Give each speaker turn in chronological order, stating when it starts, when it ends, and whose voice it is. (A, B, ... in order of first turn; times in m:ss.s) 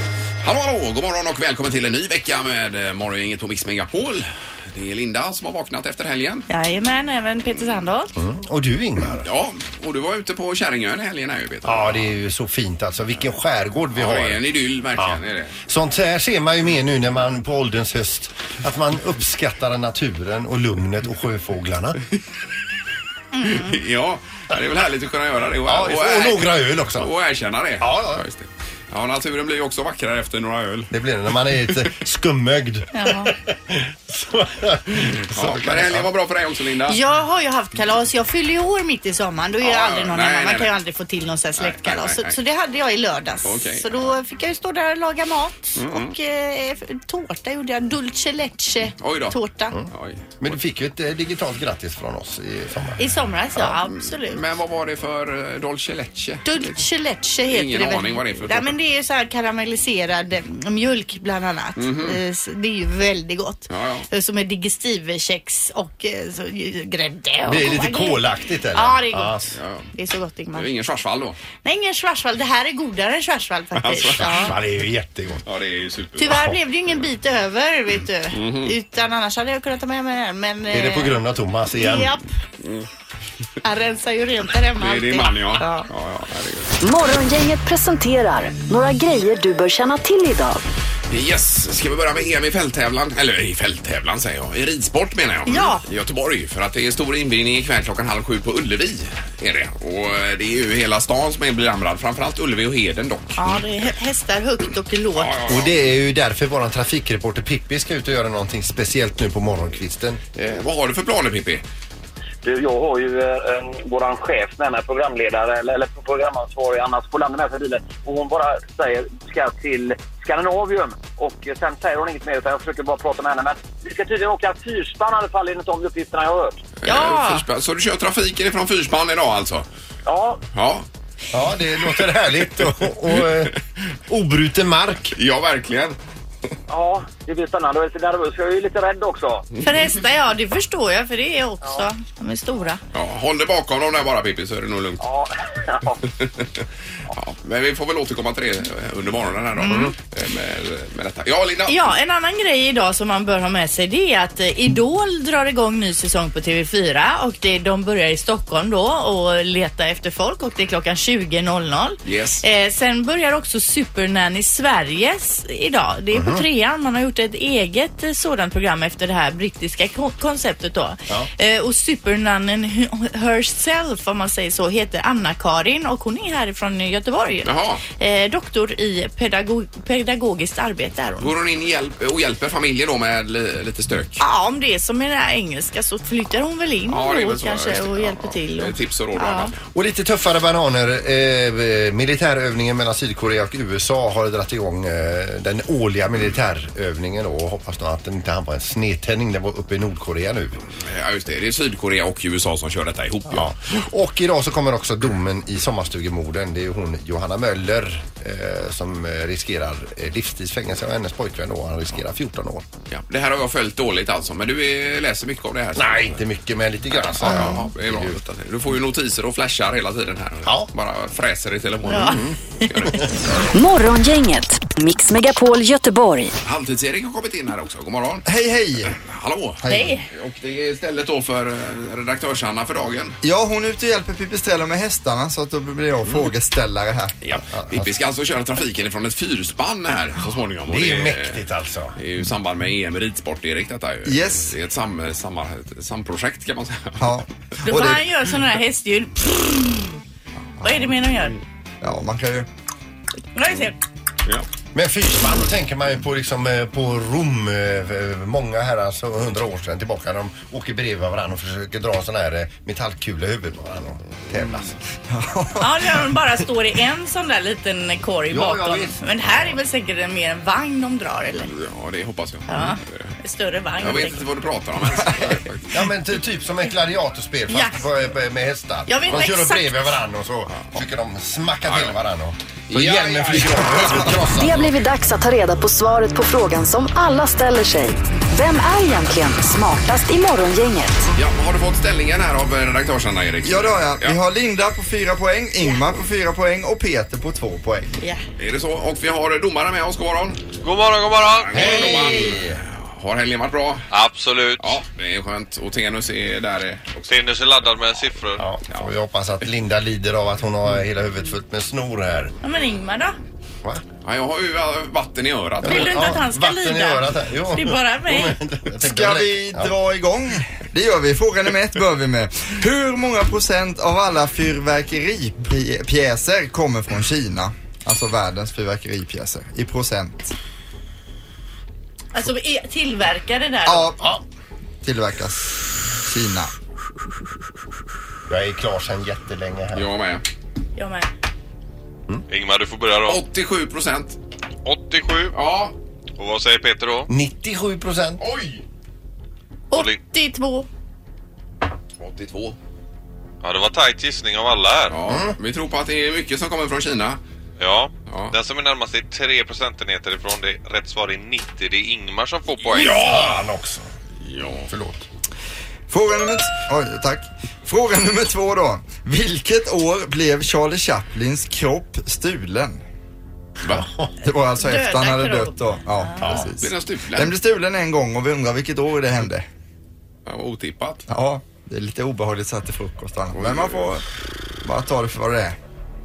0:00.4-0:06.5 A
0:06.5-0:08.1 B
0:08.2-0:09.3 C
0:09.2-0:12.1 A
0:11.6-0:14.4 C
0:14.0-0:15.6 A
0:15.0-0:22.0 C
0:23.3-0:23.8 B
0:23.5-0:30.9 A
0:25.7-0:27.1 C
0:27.8-0:28.2 C
0:30.9-0:36.1 C
0:32.9-0:33.3 B
0:35.0-0:37.0 A
0:36.9-0:49.8 B
0:39.6-0:40.7 A
0:41.6-0:42.4 A
0:43.4-0:44.1 A
0:45.8-0:46.1 A
0:49.0-0:49.4 A
0:49.9-0:50.5 A
0:50.4-0:53.1 C
0:53.0-0:54.4 B
0:53.6-0:56.8 A
0:56.4-1:09.4 B
0:57.5-0:58.7 A
1:01.8-1:02.2 A
1:03.7-1:04.1 A
1:07.5-1:09.5 C
1:09.6-1:09.9 A
1:10.0-1:10.7 B
1:10.6-1:11.4 A
1:11.6-1:14.6 B
1:13.8-1:14.6 A
1:14.2-1:15.5 C
1:15.4-1:16.5 A
1:16.2-1:21.2 B
1:18.3-1:18.8 A
1:20.7-1:22.2 C
1:21.8-1:22.3 B
1:23.6-1:25.9 B
1:24.8-1:26.8 A
1:26.8-1:30.6 D
1:31.1-1:43.9 A
1:35.5-1:35.8 B
1:43.4-1:45.6 B
1:45.2-1:45.7 A
1:45.5-1:50.2 C
1:50.4-1:51.6 A
1:52.4-2:06.6 E
2:06.8-2:09.7 A
2:06.9-2:07.4 B
2:10.0-2:10.4 E
2:10.5-2:10.9 A
2:11.3-2:13.5 C
2:13.1-2:13.6 A
2:14.1-2:15.1 C
2:15.2-2:16.0 A
2:16.7-2:19.5 E
2:19.6-2:22.8 B
2:22.9-2:25.0 A
2:25.0-2:26.0 E
2:26.2-2:31.9 A
2:29.6-2:29.9 B
2:31.7-3:01.3 B
2:42.0-2:42.4 A
2:46.1-2:46.4 C
2:57.4-2:57.8 A
3:01.2-3:04.2 A
3:04.2-3:09.5 B
3:06.9-3:09.6 A
3:09.7-3:20.6 C
3:20.8-3:23.8 A
3:23.3-3:32.7 C
3:32.9-3:36.2 A
3:35.8-3:38.2 C
3:36.9-3:43.2 A
3:41.9-3:42.6 B
3:42.0-3:42.3 C
3:43.5-3:46.3 D
3:46.4-3:48.2 A
3:48.3-3:49.0 F
3:48.9-3:53.2 A
3:49.6-3:49.9 F
3:49.7-3:50.1 B
3:53.2-3:57.1 F
3:57.2-4:01.4 A
3:57.5-3:57.9 C
4:00.7-4:02.0 C
4:02.0-4:07.0 A
4:04.1-4:04.6 F
4:07.0-4:08.0 F
4:07.6-4:10.0 B
4:10.6-4:11.4 B
4:11.8-4:12.5 F
4:13.4-4:13.8 B
4:14.7-4:24.8 C
4:25.1-4:26.0 F
4:25.6-4:31.5 B
4:28.3-4:29.1 C
4:31.5-4:33.1 A
4:32.5-4:34.2 B
4:33.8-4:35.8 A
4:35.7-4:44.7 C
4:37.5-4:37.8 B
4:38.9-4:40.0 B
4:41.7-4:42.0 A
4:42.7-4:44.0 A
4:44.4-4:51.1 D
4:51.2-4:54.2 A
4:53.4-4:57.9 F
4:58.4-5:00.4 A
5:00.6-5:01.6 G
5:01.4-5:03.9 A
5:01.5-5:02.6 C
5:01.6-5:02.3 B
5:03.9-5:04.8 G
5:04.6-5:07.1 A
5:07.1-5:08.5 G
5:08.4-5:12.4 C
5:12.4-5:13.2 B
5:14.0-5:16.2 A
5:15.6-5:19.7 C
5:15.6-5:18.4 B
5:18.8-5:30.3 F
5:32.1-5:34.0 B
5:33.7-5:34.0 F
5:34.8-5:35.4 F
5:36.0-5:36.5 F
5:38.3-5:39.9 C
5:39.8-5:40.2 A
5:40.8-5:41.1 B
5:42.3-5:43.2 G
5:43.0-5:44.2 A
5:44.6-5:45.4 G
5:45.3-5:45.8 A
5:46.2-5:47.1 G
5:47.1-5:48.2 C
5:48.2-5:48.6 A
5:49.7-5:50.7 B
5:49.7-5:50.0 G
5:52.0-5:52.6 A
5:53.4-5:55.0 G
5:54.9-5:57.2 A
5:55.1-5:55.4 C
5:57.6-6:03.0 G
5:58.1-5:58.4 A
6:02.7-6:03.4 A
6:02.7-6:03.9 C
6:04.2-6:04.7 A
6:04.7-6:05.1 C
6:05.9-6:12.8 F
6:13.7-6:14.1 C
6:14.2-6:19.5 F
6:14.6-6:16.4 B
6:16.2-6:16.5 C
6:16.6-6:17.3 A
6:20.3-6:21.0 A
6:21.1-6:24.0 F
6:23.4-6:23.9 A
6:24.6-6:25.6 F